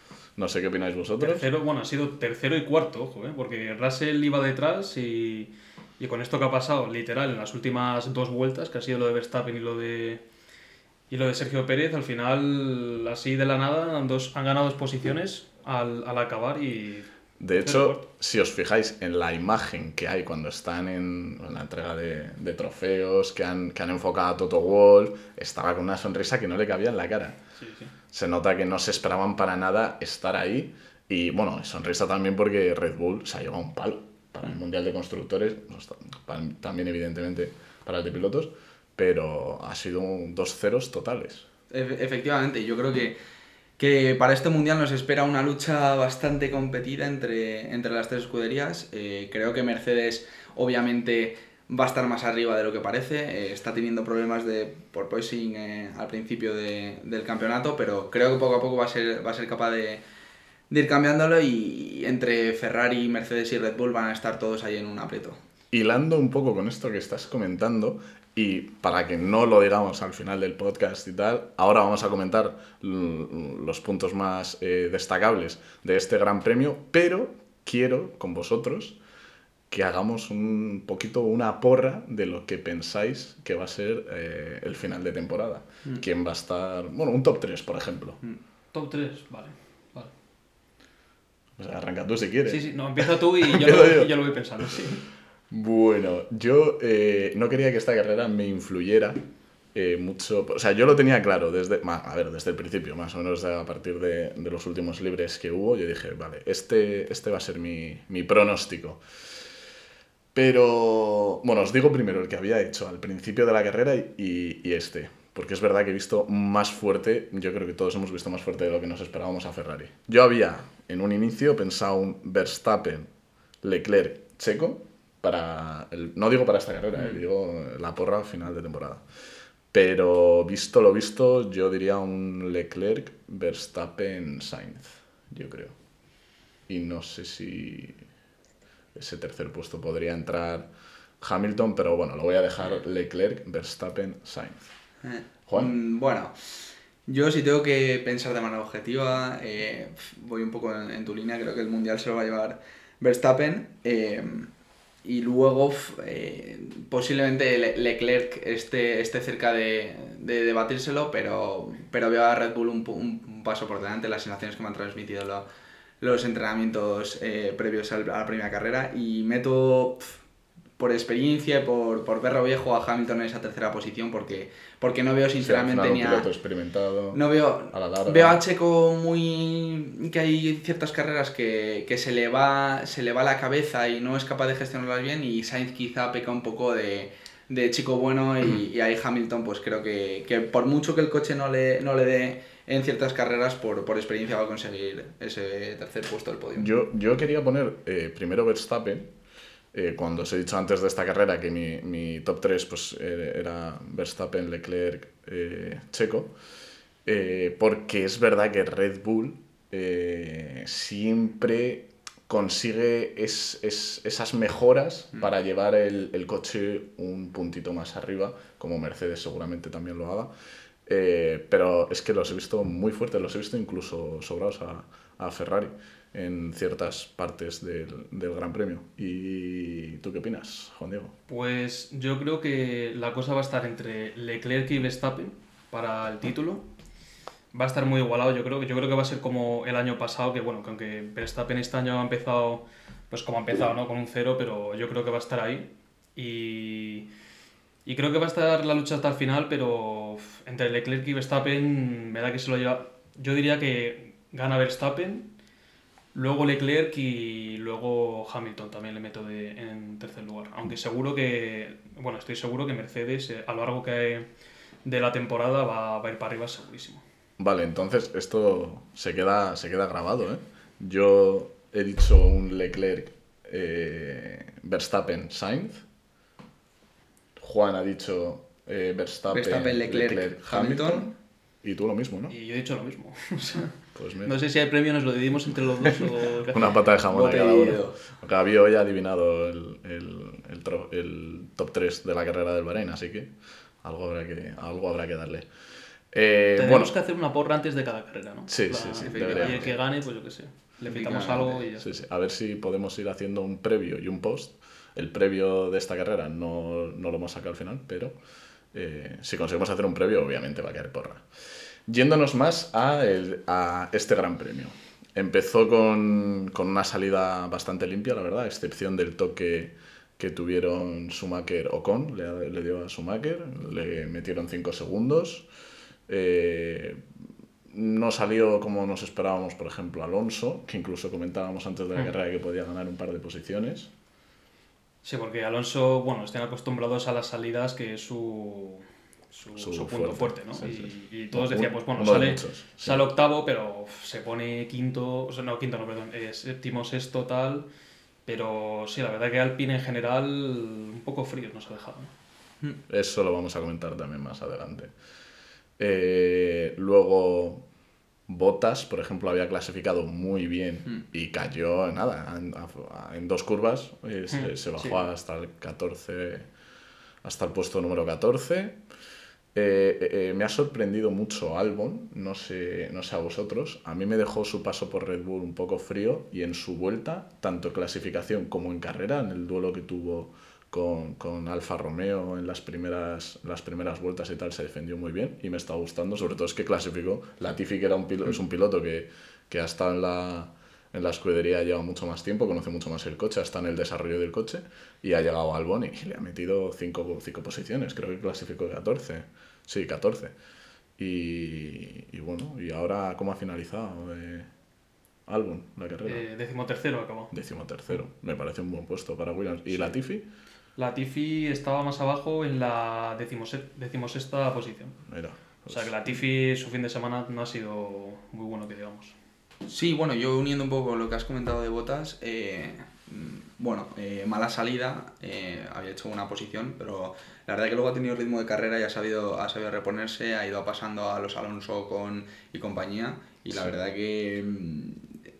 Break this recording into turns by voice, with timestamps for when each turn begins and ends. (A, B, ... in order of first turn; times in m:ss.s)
0:00.4-0:01.5 A
0:01.2-0:10.2 B
0:11.1-0:18.0 B
0:17.4-0:27.4 A
0:27.6-0:27.9 B
0:28.1-0:41.4 A
0:41.7-0:43.2 C
0:43.8-1:00.0 C
1:00.7-1:05.4 C
1:05.7-1:19.0 A
1:19.7-1:28.2 A
1:28.7-1:30.1 B
1:31.6-1:34.1 A
1:32.4-1:35.0 B
1:35.5-1:49.0 A
1:50.3-2:03.1 A
2:03.6-2:09.0 A
2:09.7-2:15.7 A
2:16.7-2:18.0 A
2:18.9-2:20.7 A
2:21.2-2:24.7 A
2:25.0-2:34.5 C
2:25.5-2:25.7 A
2:35.0-2:45.4 C
2:46.0-2:50.2 C
2:50.8-2:56.3 C
2:55.4-2:57.2 A
2:57.1-3:16.7 C
2:57.7-2:58.4 A
3:16.6-3:19.1 A
3:19.7-3:26.3 A
3:27.0-3:40.3 A
3:40.8-3:51.1 A
3:51.3-3:56.6 B
3:57.5-4:07.1 B
4:07.8-4:15.3 B
4:16.1-4:24.3 B
4:24.8-4:27.0 B
4:27.4-4:35.8 A
4:37.4-4:42.3 A
4:39.3-4:41.1 C
4:42.3-4:46.7 B
4:43.9-4:44.3 A
4:45.8-4:53.3 A
4:47.0-4:48.0 C
4:53.8-4:55.5 A
4:56.1-4:56.9 A
4:56.6-5:01.9 B
4:58.5-4:59.8 A
4:59.0-4:59.8 C
5:00.9-5:01.6 C
5:01.8-5:08.2 A
5:08.7-5:11.2 A
5:11.9-5:25.5 A
5:26.1-5:27.0 A
5:27.7-5:33.9 A
5:35.0-5:47.7 B
5:39.6-5:43.1 A
5:48.2-5:52.1 B
5:52.9-5:54.9 A
5:55.8-5:57.6 A
5:58.3-6:06.5 A
6:04.3-6:05.0 B
6:07.2-6:08.8 A
6:09.5-6:40.3 A
6:41.0-6:44.5 A
6:45.3-6:46.2 A
6:46.0-6:47.3 B
6:47.3-6:50.3 A
6:50.8-6:55.0 B
6:55.1-6:55.9 A
6:55.7-6:59.2 B
6:59.6-7:15.1 C